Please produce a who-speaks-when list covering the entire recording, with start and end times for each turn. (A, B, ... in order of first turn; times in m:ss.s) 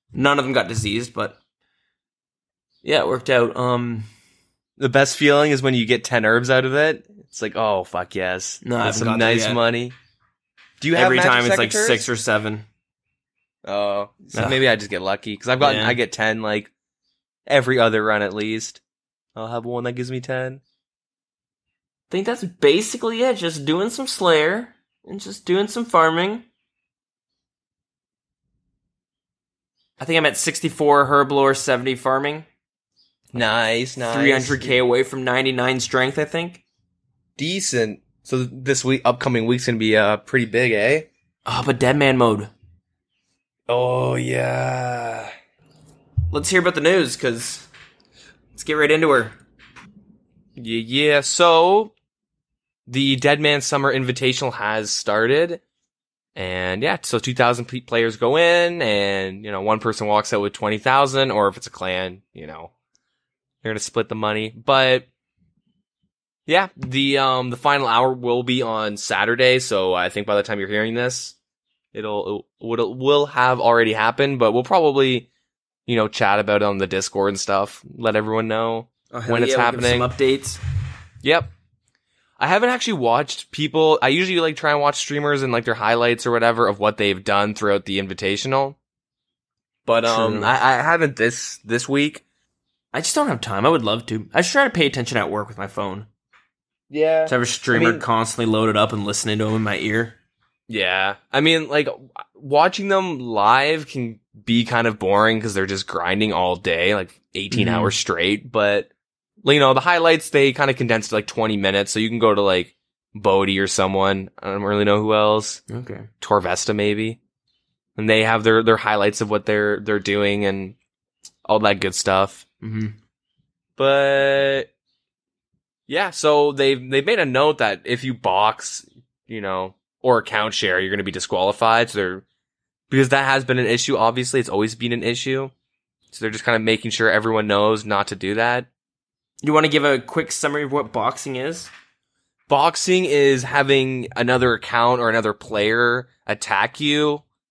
0:00.1-0:01.4 A
0:02.8-0:04.1 A
0:04.8-0:09.9 B
0:08.6-0:09.6 A
0:10.8-0:12.1 B
0:10.9-0:12.6 A
0:13.6-0:16.7 B
0:14.3-0:14.6 A
0:15.6-0:16.0 A
0:17.5-0:18.8 B
0:19.4-0:20.6 B
0:22.1-0:26.4 A
0:30.0-0:32.4 A
0:33.3-0:34.8 B
0:34.0-0:36.6 A
0:37.4-0:41.1 B
0:41.4-0:42.5 A
0:43.7-0:45.3 B
0:46.3-0:47.7 A
0:48.6-0:49.3 A
0:50.6-0:51.9 B
0:52.9-0:55.6 B
0:56.4-1:02.7 B
1:03.6-1:05.0 B
1:06.5-1:11.3 B
1:11.9-1:15.3 B
1:15.8-1:20.1 B
1:19.1-1:20.6 A
1:21.2-1:21.5 B
1:22.4-1:28.8 B
1:29.8-1:32.2 B
1:30.0-1:30.5 A
1:32.9-1:36.1 A
1:36.9-1:38.0 B
1:37.3-1:40.2 A
1:40.7-1:48.9 B
1:47.5-1:47.9 A
1:49.4-1:55.6 B
1:55.7-1:56.1 A
1:56.2-1:57.2 B
1:58.0-2:00.8 B
2:01.4-2:02.4 B
2:02.6-2:03.0 A
2:03.8-2:04.7 B
2:05.9-2:12.2 B
2:12.9-2:15.5 B
2:16.1-2:18.7 B
2:19.4-2:21.7 A
2:22.5-2:27.2 B